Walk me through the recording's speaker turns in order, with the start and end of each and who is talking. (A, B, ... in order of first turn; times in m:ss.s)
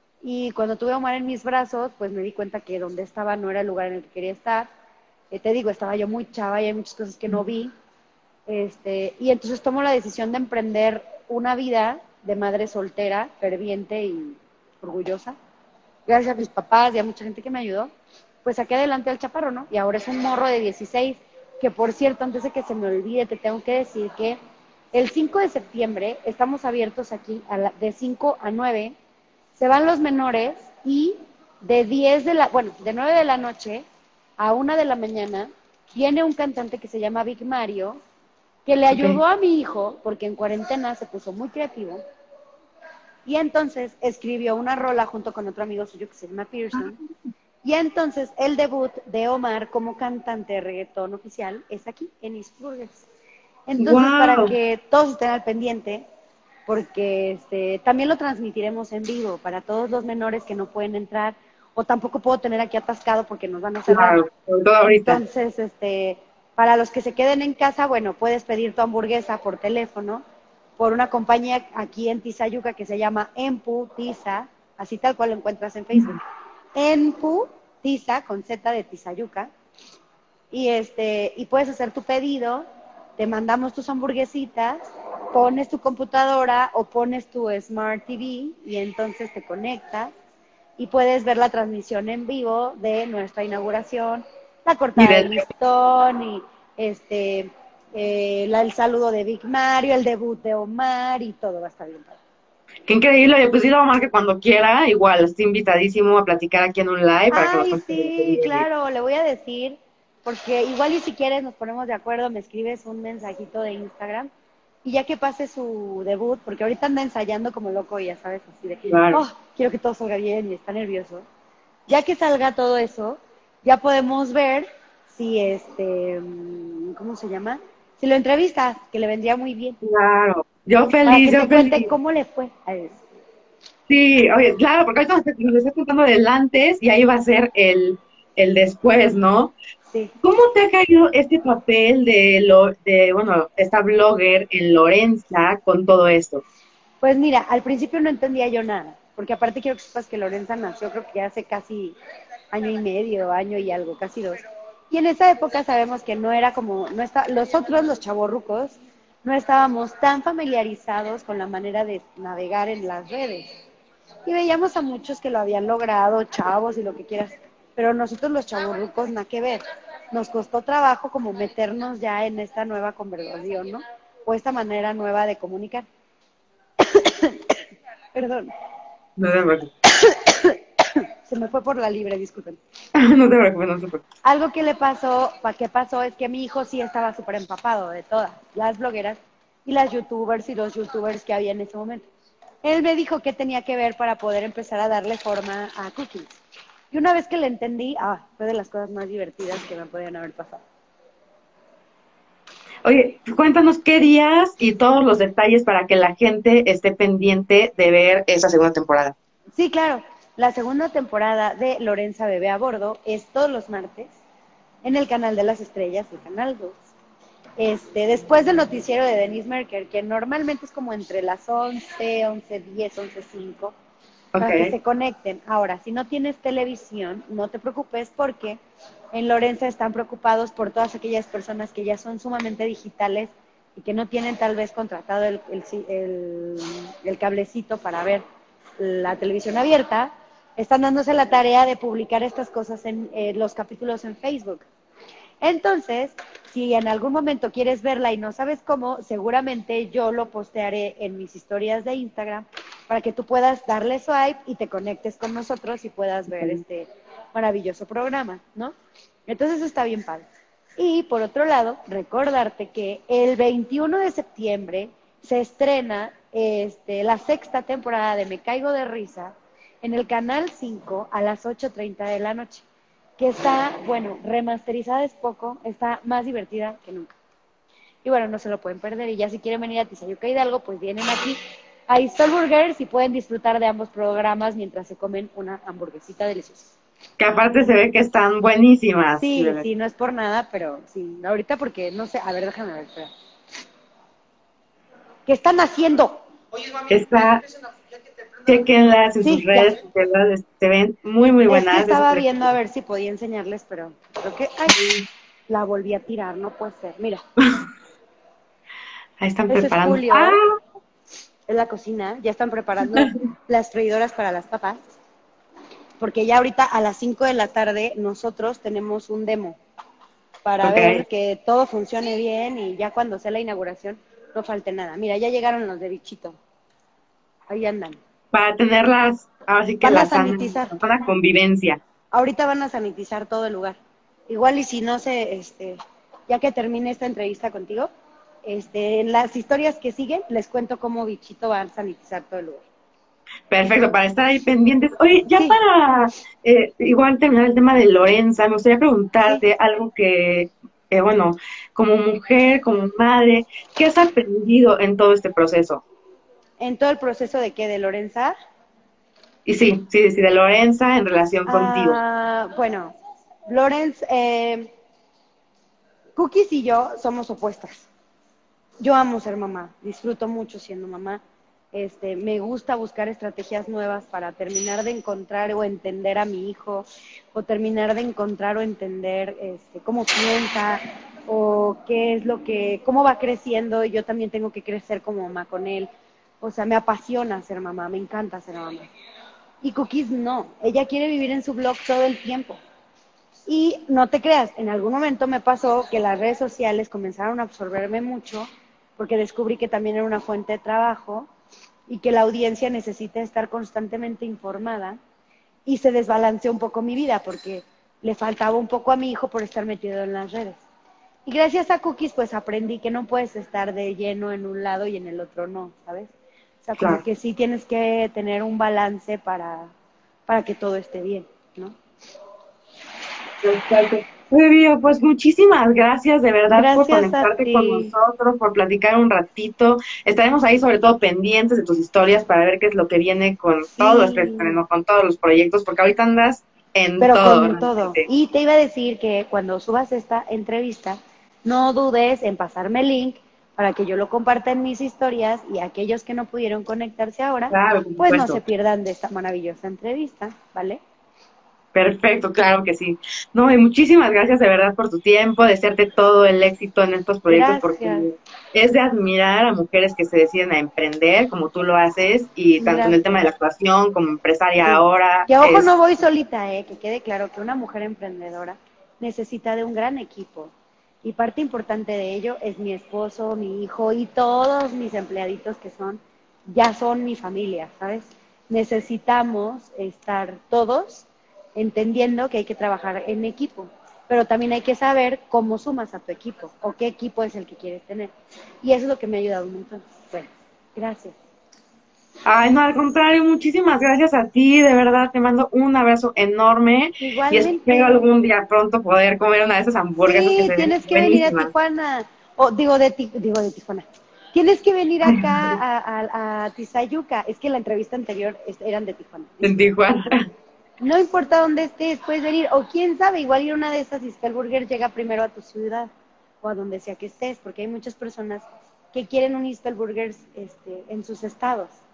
0:00.2-0:04.7 A
0:05.3-0:07.7 A
0:08.5-0:15.4 A
0:16.1-0:17.9 A
0:18.4-0:24.4 A
0:24.9-0:28.9 A
0:29.5-0:33.8 A
0:34.4-0:38.0 A
0:38.6-0:42.0 A
0:38.9-0:39.2 B
0:43.2-0:47.0 A
0:47.6-0:53.0 A
0:53.7-0:56.0 A
0:53.8-0:54.5 B
0:56.7-1:04.2 A
1:03.9-1:05.2 B
1:04.8-1:10.2 A
1:10.8-1:16.2 A
1:16.8-1:19.5 A
1:20.5-1:22.6 A
1:23.2-1:30.1 A
1:30.8-1:42.2 A
1:35.0-1:35.5 B
1:42.9-1:48.6 B
1:47.3-1:54.3 A
1:54.8-2:01.2 A
1:58.9-1:59.2 B
2:01.9-2:09.8 A
2:09.8-2:11.9 B
2:11.0-2:13.0 A
2:13.9-2:19.5 B
2:20.2-2:26.4 B
2:27.0-2:32.0 A
2:32.5-2:43.6 A
2:44.2-2:55.8 A
2:56.8-2:57.6 A
2:58.1-2:58.5 A
2:59.2-2:59.7 B
3:00.0-3:00.6 A
3:01.2-3:02.6 A
3:03.0-3:04.0 B
3:04.2-3:12.1 A
3:12.6-3:16.4 A
3:16.9-3:20.6 A
3:22.8-3:29.2 B
3:29.6-3:34.1 A
3:34.8-3:36.8 A
3:37.6-3:43.7 A
3:44.3-3:44.7 B
3:44.4-3:48.6 A
3:49.1-3:58.2 A
3:58.8-4:04.6 A
4:05.4-4:18.7 A
4:19.3-4:20.2 A
4:20.8-4:32.6 A
4:33.2-4:37.2 A
4:38.0-4:46.7 A
4:47.2-4:49.6 B
4:49.2-4:53.1 A
4:55.2-4:56.2 A
4:56.9-4:57.4 B
4:58.5-5:02.3 B
4:59.2-4:59.8 A
5:01.5-5:04.8 A
5:04.7-5:05.0 B
5:05.5-5:07.2 A
5:09.2-5:10.5 B
5:09.5-5:10.4 A
5:11.5-5:14.8 A
5:16.0-5:19.6 A
5:20.4-5:26.4 A
5:20.6-5:21.0 B
5:27.5-5:28.0 A
5:28.3-5:31.8 B
5:29.8-5:30.8 A
5:32.1-5:33.8 A
5:34.3-5:37.9 A
5:38.4-5:42.6 A
5:43.5-5:55.8 B
5:56.6-5:58.3 A
5:59.4-6:02.0 B
6:01.5-6:02.9 A
6:03.5-6:04.7 A
6:06.1-6:07.9 A
6:08.8-6:11.2 A
6:11.7-6:25.9 A
6:26.4-6:28.9 A
6:29.6-6:32.6 A
6:33.5-6:41.3 A
6:41.9-6:45.0 A
6:45.6-6:50.6 A
6:51.2-6:56.1 A
6:56.6-6:59.7 A
7:00.3-7:01.7 A
7:03.4-7:18.1 B
7:06.5-7:07.9 A
7:13.8-7:14.6 A
7:17.0-7:30.8 A
7:27.5-7:28.4 B
7:31.7-7:45.7 B
7:37.3-7:38.1 A
7:42.6-7:43.0 A
7:44.6-7:50.5 A
7:51.0-8:08.1 A
8:08.6-8:11.1 A
8:12.2-8:21.5 B
8:17.0-8:18.0 A
8:20.0-8:29.5 A
8:25.1-8:25.5 B
8:29.4-8:30.3 B
8:30.8-8:35.9 A
8:36.4-8:41.8 A